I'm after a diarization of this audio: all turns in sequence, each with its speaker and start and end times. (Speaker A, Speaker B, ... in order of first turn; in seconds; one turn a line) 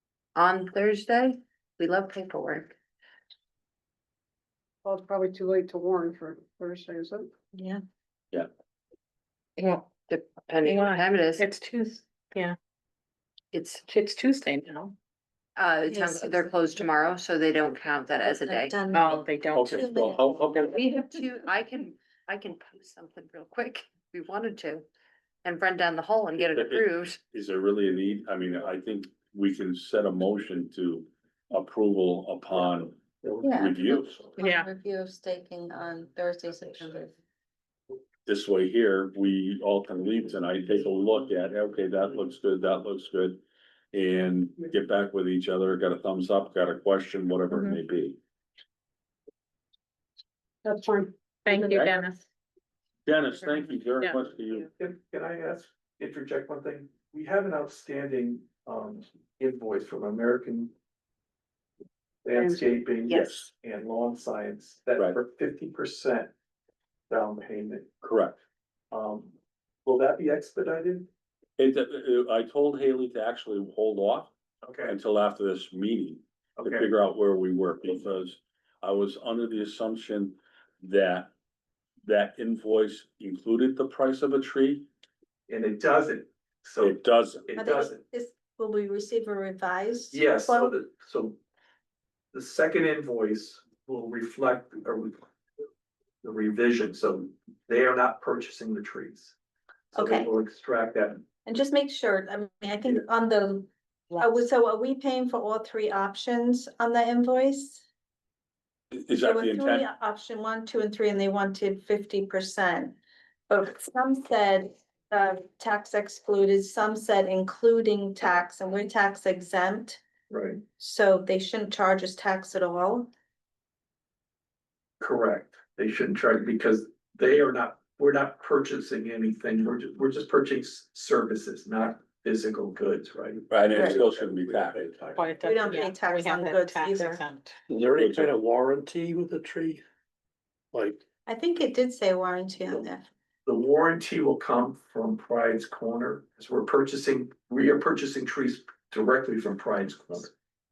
Speaker A: 0.4-2.8
Speaker B: 4.8-7.3
Speaker C: 7.5-7.8
Speaker D: 9.6-9.9
Speaker A: 10.1-11.5
Speaker D: 10.6-12.6
Speaker A: 13.5-13.8
Speaker D: 13.9-14.9
Speaker A: 15.6-18.8
Speaker C: 15.9-16.5
Speaker C: 18.3-20.4
Speaker D: 18.9-19.9
Speaker E: 19.6-20.8
Speaker A: 20.7-24.9
Speaker A: 25.4-27.2
Speaker E: 26.4-33.0
Speaker C: 33.4-37.1
Speaker E: 33.5-34.2
Speaker D: 34.4-34.7
Speaker E: 38.3-48.2
Speaker D: 47.5-47.8
Speaker B: 50.6-51.9
Speaker D: 51.5-52.2
Speaker E: 51.7-52.0
Speaker E: 53.1-54.7
Speaker A: 53.4-53.8
Speaker F: 54.8-60.7
Speaker F: 62.2-66.3
Speaker B: 62.3-62.8
Speaker A: 63.1-63.5
Speaker E: 63.1-63.5
Speaker F: 67.1-67.9
Speaker E: 68.0-68.4
Speaker F: 68.9-69.3
Speaker F: 69.8-71.1
Speaker E: 71.6-74.3
Speaker F: 74.6-75.0
Speaker E: 74.8-81.3
Speaker F: 76.6-76.9
Speaker E: 82.0-84.9
Speaker F: 85.5-88.0
Speaker E: 86.8-87.5
Speaker C: 87.6-90.7
Speaker F: 90.1-91.4
Speaker F: 92.3-95.3
Speaker F: 96.2-99.3
Speaker F: 99.9-101.2
Speaker C: 99.9-100.3
Speaker C: 101.5-107.8
Speaker E: 108.9-109.9
Speaker C: 109.2-113.0
Speaker C: 113.5-120.0
Speaker F: 120.3-120.6
Speaker C: 120.7-123.1
Speaker F: 125.0-135.9
Speaker E: 133.5-134.9
Speaker C: 133.8-134.0
Speaker D: 135.2-137.6
Speaker C: 135.4-137.2
Speaker G: 137.7-139.8
Speaker E: 138.0-138.3
Speaker G: 140.7-141.0
Speaker C: 141.3-143.1
Speaker F: 143.5-150.3